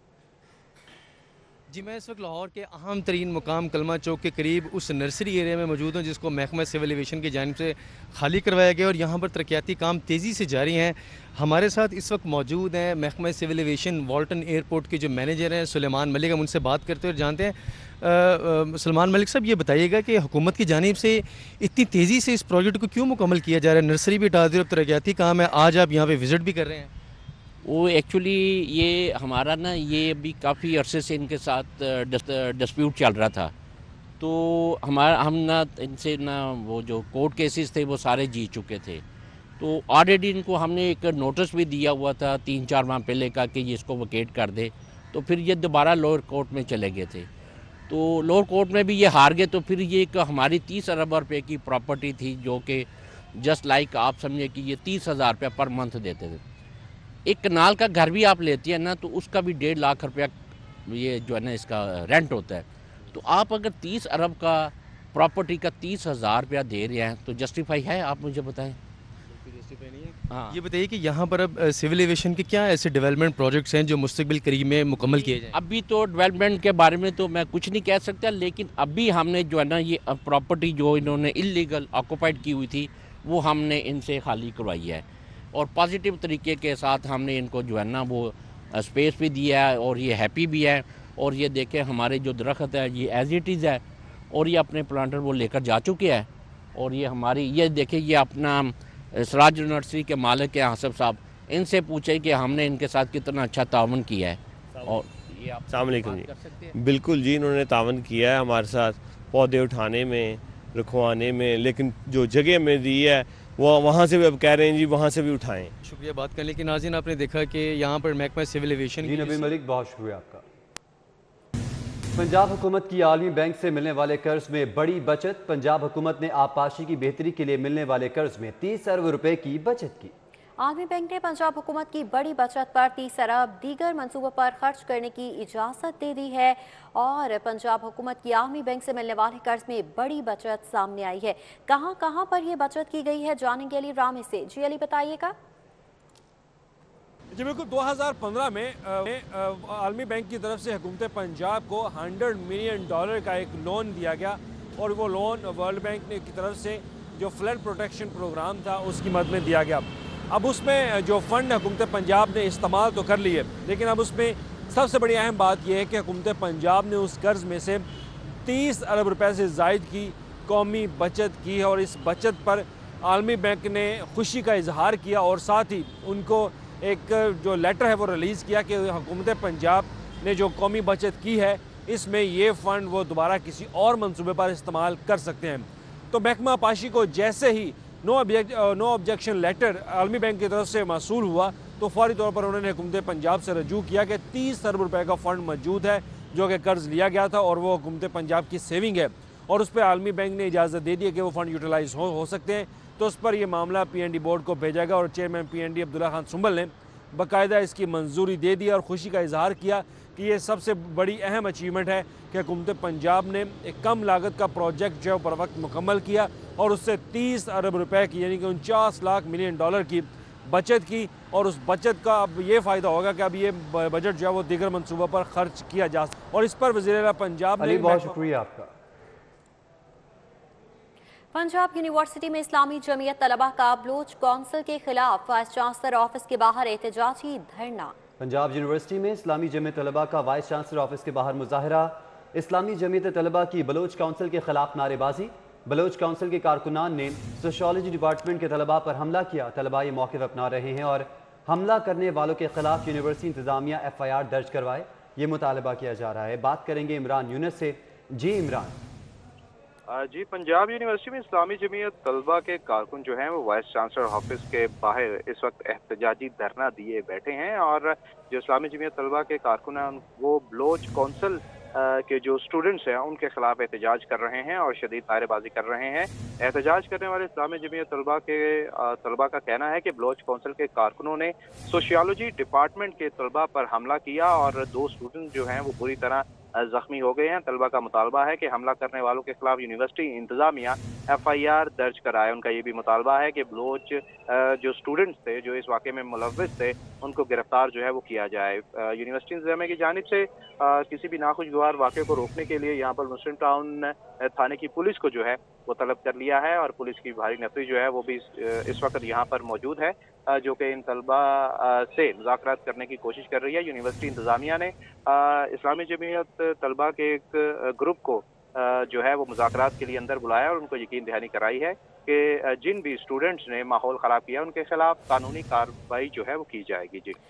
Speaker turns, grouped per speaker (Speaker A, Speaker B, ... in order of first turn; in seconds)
Speaker A: 1.7-26.9, 69.6-75.5, 115.8-119.5
Speaker B: 27.6-33.5, 34.2-39.0, 39.6-47.3, 47.9-56.4, 57.3-60.3, 60.9-68.8, 70.3-70.6, 75.5-106.7
Speaker C: 105.7-115.7
Speaker D: 119.0-120.4, 122.2-130.1, 227.6-228.7, 238.2-258.8
Speaker E: 130.6-145.3, 231.3-237.9
Speaker F: 147.3-167.8, 168.5-228.2
Speaker G: 259.9-327.1